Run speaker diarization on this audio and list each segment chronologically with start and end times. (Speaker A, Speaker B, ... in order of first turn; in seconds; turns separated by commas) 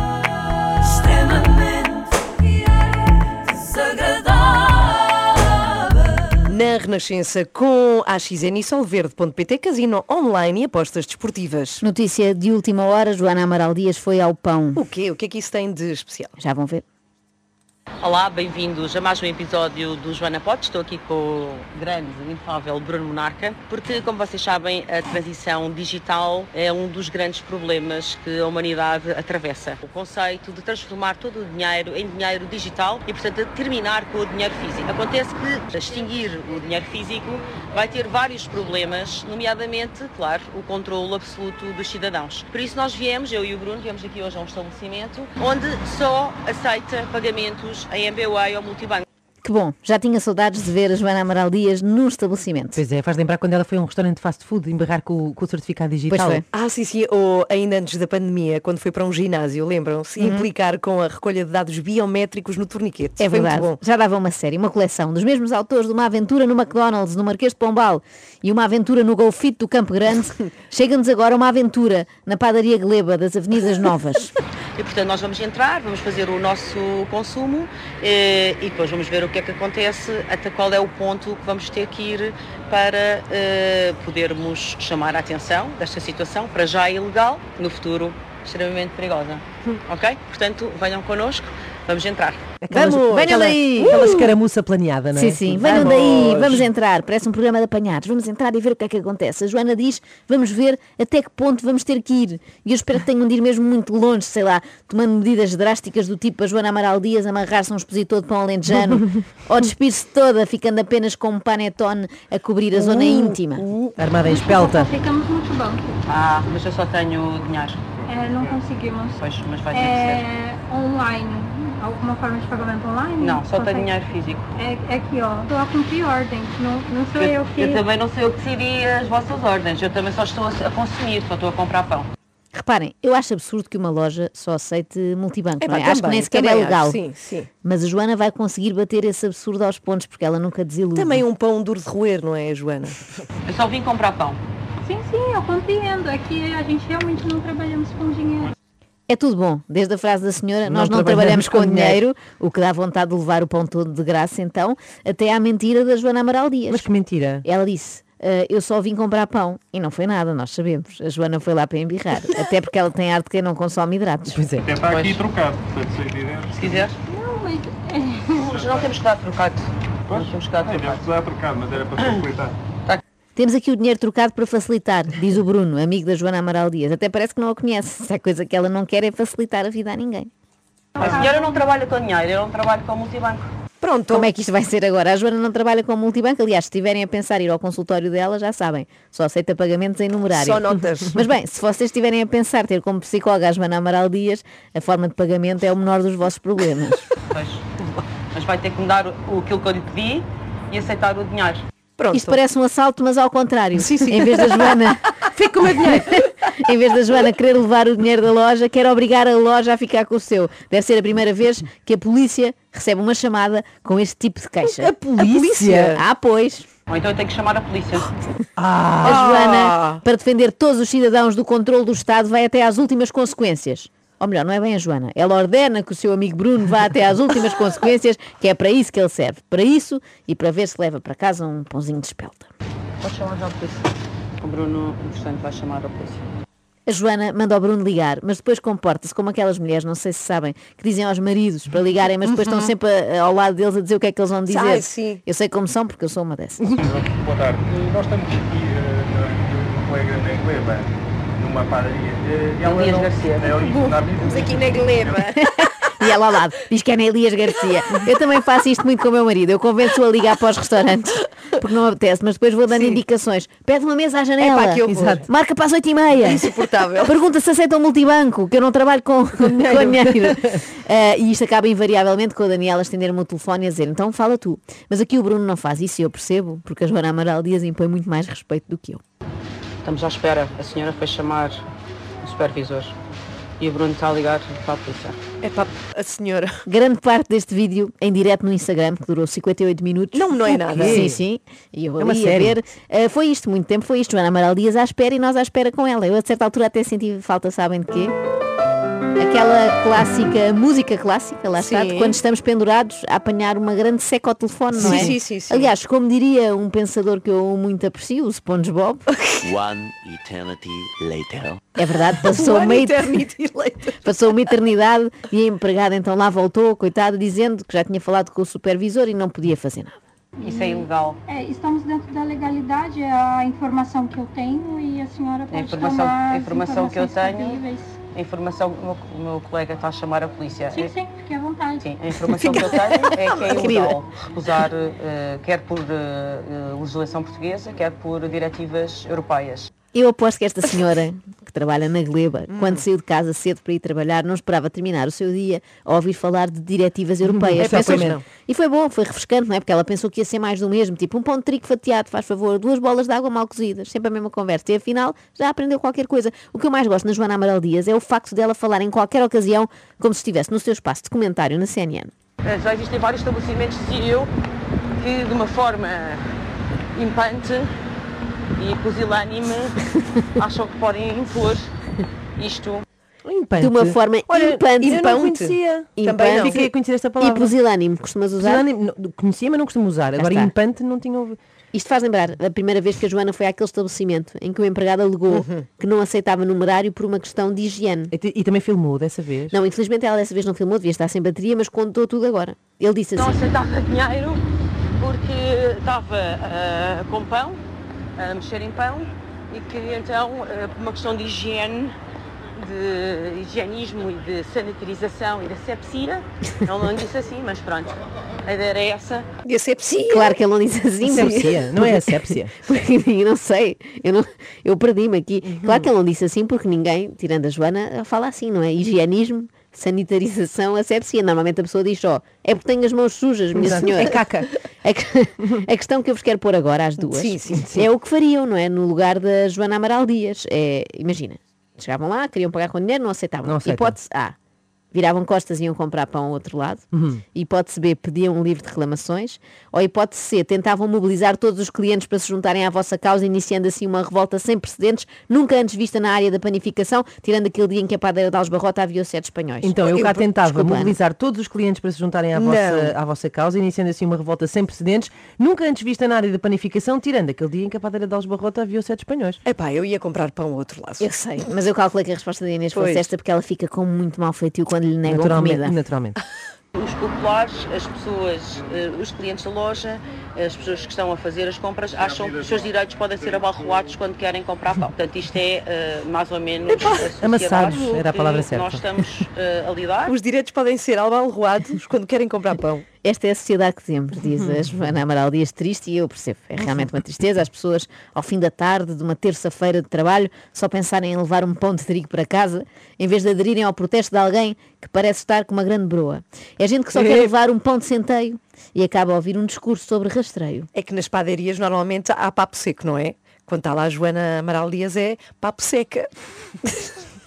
Speaker A: 1.3-2.3, Speaker A: 3.5-5.4, Speaker B: 6.5-11.8, Speaker C: 11.8-14.8, Speaker B: 14.8-16.3, Speaker C: 16.4-16.8, Speaker D: 18.0-49.0, Speaker C: 49.4-52.8, Speaker E: 52.8-56.4, Speaker C: 56.1-56.4, Speaker B: 56.5-63.8, Speaker C: 60.2-60.5, Speaker C: 63.2-74.3, Speaker D: 74.8-92.4, Speaker E: 92.6-96.7, Speaker C: 92.7-94.3, Speaker C: 95.1-113.7, Speaker B: 112.7-114.0, Speaker E: 114.0-114.9, Speaker F: 114.2-116.0, Speaker D: 116.1-117.8, Speaker A: 118.0-118.6, Speaker F: 118.0-124.0, Speaker D: 119.2-120.2, Speaker D: 123.2-124.5, Speaker F: 124.5-127.8, Speaker D: 127.2-132.1, Speaker C: 132.6-137.0, Speaker B: 135.6-137.5, Speaker C: 137.6-141.2, Speaker B: 140.9-143.3, Speaker D: 143.5-144.4, Speaker F: 144.8-148.5, Speaker C: 149.1-156.9, Speaker E: 150.7-152.0, Speaker E: 156.7-157.4, Speaker C: 157.4-164.4, Speaker E: 164.3-164.8, Speaker A: 164.8-166.5, Speaker D: 164.8-165.2, Speaker D: 166.6-166.9, Speaker F: 167.1-168.5, Speaker D: 168.4-171.1, Speaker A: 170.1-172.5, Speaker D: 172.0-172.2, Speaker C: 173.4-180.3, Speaker F: 180.9-181.6, Speaker D: 181.0-183.5, Speaker B: 183.8-184.3, Speaker C: 184.1-197.0, Speaker B: 190.3-191.2, Speaker D: 197.3-197.6, Speaker D: 198.3-201.6, Speaker B: 202.0-202.4, Speaker C: 202.1-205.0, Speaker B: 203.7-205.0, Speaker E: 205.3-206.0, Speaker B: 205.7-206.3, Speaker C: 205.9-216.7, Speaker B: 214.6-216.0, Speaker E: 215.1-215.8, Speaker D: 216.9-218.1, Speaker E: 218.6-219.2, Speaker B: 219.0-220.0, Speaker C: 219.0-232.5, Speaker D: 233.0-233.8, Speaker D: 234.4-236.3, Speaker C: 236.9-246.8, Speaker B: 242.2-242.7, Speaker B: 244.5-245.2, Speaker A: 246.8-255.2, Speaker D: 252.6-253.6, Speaker B: 253.6-255.4, Speaker C: 255.4-266.5, Speaker B: 262.7-263.0, Speaker B: 264.4-265.3, Speaker E: 264.9-265.3, Speaker B: 266.2-267.1, Speaker C: 267.0-279.0, Speaker B: 269.5-269.9, Speaker D: 279.8-281.6, Speaker D: 282.2-282.9, Speaker D: 283.6-285.2, Speaker B: 285.4-286.5, Speaker C: 286.7-298.1, Speaker B: 290.1-291.0, Speaker E: 290.7-291.2, Speaker E: 292.0-292.6, Speaker C: 299.2-309.1, Speaker B: 301.5-302.2, Speaker B: 304.7-305.7, Speaker G: 309.4-311.6, Speaker C: 311.8-313.2, Speaker B: 311.8-314.2, Speaker C: 314.0-320.0, Speaker F: 320.4-328.0, Speaker D: 320.4-321.2, Speaker D: 325.5-330.9, Speaker F: 330.7-331.9, Speaker D: 331.8-339.7, Speaker C: 332.3-334.0, Speaker B: 333.3-333.7, Speaker C: 339.9-362.1, Speaker B: 342.5-342.9, Speaker E: 347.3-348.1, Speaker B: 347.6-348.2, Speaker D: 362.4-364.3, Speaker D: 365.0-366.3, Speaker D: 366.9-367.7, Speaker D: 368.6-369.8, Speaker D: 370.4-371.7, Speaker D: 372.4-372.8, Speaker E: 373.2-377.5, Speaker C: 373.6-375.0, Speaker B: 374.8-376.7, Speaker C: 376.0-378.6, Speaker E: 378.4-381.4, Speaker C: 380.1-380.5, Speaker C: 381.7-388.1, Speaker B: 385.3-385.7, Speaker E: 388.1-389.6, Speaker C: 389.5-393.4, Speaker D: 393.2-394.4, Speaker D: 395.0-397.6, Speaker D: 398.2-402.0, Speaker D: 402.5-409.3, Speaker B: 409.4-410.4, Speaker C: 410.0-424.2, Speaker E: 411.0-412.6, Speaker E: 415.6-415.9, Speaker E: 423.6-424.5, Speaker C: 424.8-434.4, Speaker B: 427.0-427.8, Speaker E: 433.4-434.0, Speaker C: 434.9-449.8, Speaker E: 436.9-437.2, Speaker E: 449.6-459.4, Speaker B: 449.8-450.3, Speaker C: 450.3-451.0, Speaker B: 452.3-452.9, Speaker B: 459.4-461.1, Speaker C: 461.0-465.8, Speaker B: 462.7-463.1, Speaker E: 465.1-466.2, Speaker D: 466.7-480.1, Speaker E: 476.8-478.9, Speaker B: 480.1-482.9, Speaker C: 483.0-500.7, Speaker B: 497.0-497.3, Speaker B: 500.7-506.1